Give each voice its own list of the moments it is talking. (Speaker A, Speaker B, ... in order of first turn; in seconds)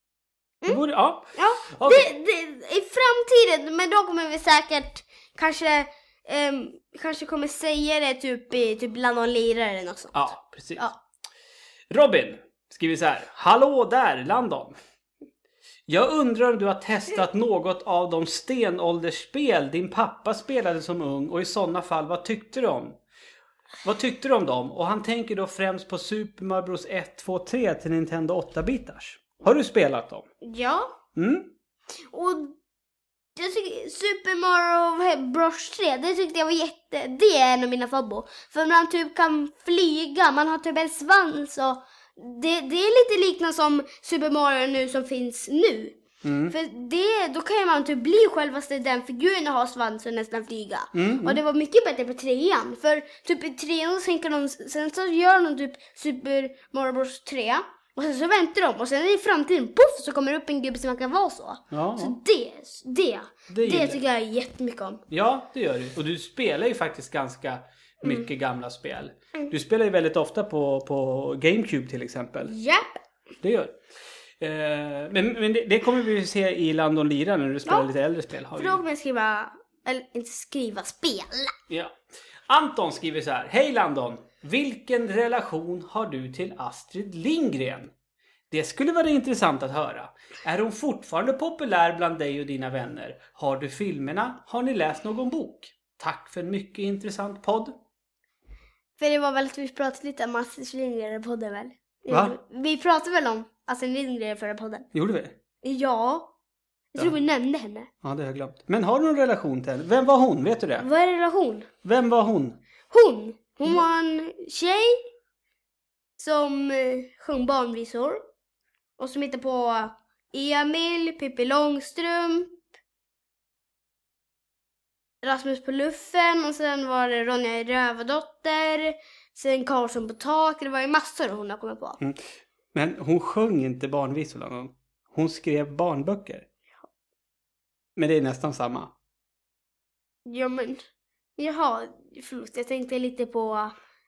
Speaker A: 0.7-2.1, 10.1-10.9, 11.9-14.8, 15.9-23.0, 23.8-30.2, 31.1-31.5, 46.2-46.5, 50.9-51.4, 61.7-62.2, 63.5-64.0, 65.1-72.5, 73.4-73.8, 74.4-78.8, 81.7-82.0, 82.5-87.9, 88.5-97.8, 102.1-102.4, 104.9-105.3, 108.0-110.9, 111.8-112.6, 132.7-136.5, 137.9-138.9
Speaker B: 1.3-11.0, 30.4-30.9, 32.1-32.5, 33.4-46.0, 46.5-65.0, 72.4-73.0, 78.5-81.5, 99.0-104.9, 105.6-106.3, 106.9-107.9, 110.8-111.7, 112.9-115.0, 116.2-118.2, 119.0-122.6, 125.2-132.0, 140.2-140.8, 141.4-143.7